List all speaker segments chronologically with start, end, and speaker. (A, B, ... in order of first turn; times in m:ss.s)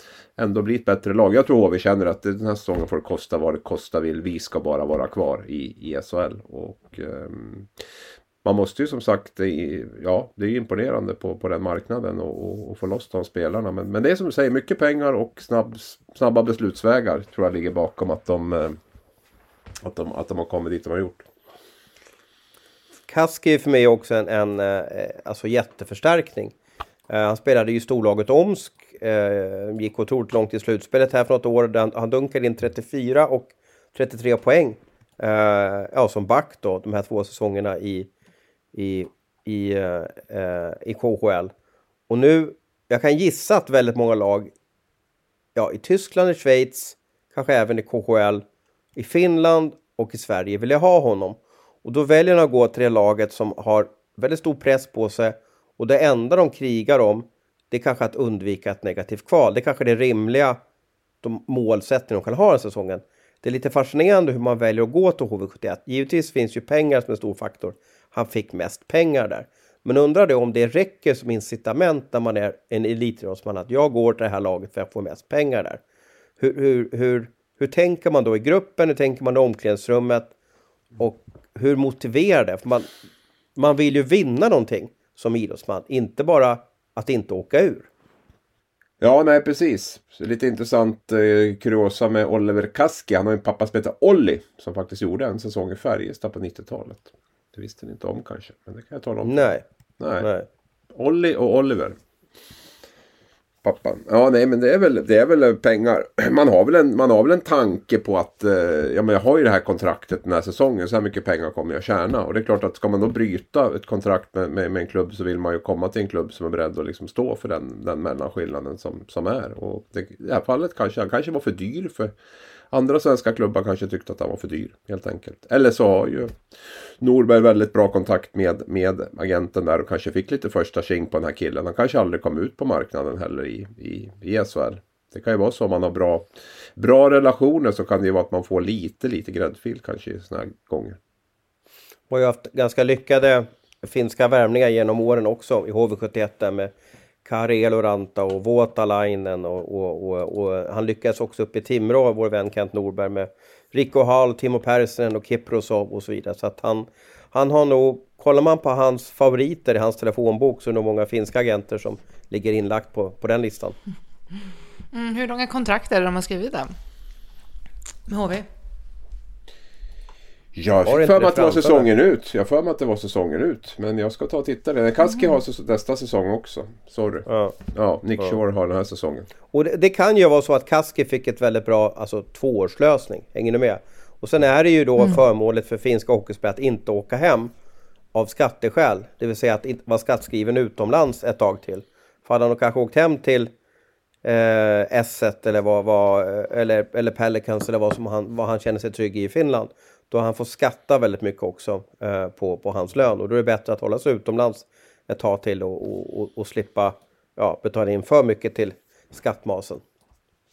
0:00.4-0:07.7 A
0:08.4-0:18.8 A
0:19.8-0:21.2 A
0:23.1-0:26.5 B
0:27.1-0:38.1 B
0:38.7-0:41.5 B
0:42.1-0:44.5 B
0:45.5-0:48.4 B
0:49.0-1:00.6 B
1:01.2-1:15.8 B
1:16.4-1:20.3 B
1:21.0-1:22.9 B
1:23.6-1:27.9 B
1:29.0-1:39.5 A
1:39.2-1:39.6 B
1:40.0-1:40.3 A
1:40.2-1:40.5 B
1:40.9-1:42.0 A
1:43.6-2:02.1 A
2:02.7-2:06.4 A
2:07.0-2:16.2 A
2:16.8-2:21.0 A
2:22.1-2:26.7 B
2:27.2-2:43.8 B
2:44.9-2:46.7 C
2:48.1-2:48.4 C
2:50.5-2:59.3 A
2:50.8-2:51.9 B
2:57.2-2:57.6 B
2:59.5-3:07.5 B
3:08.1-3:13.5 B
3:14.2-3:29.8 B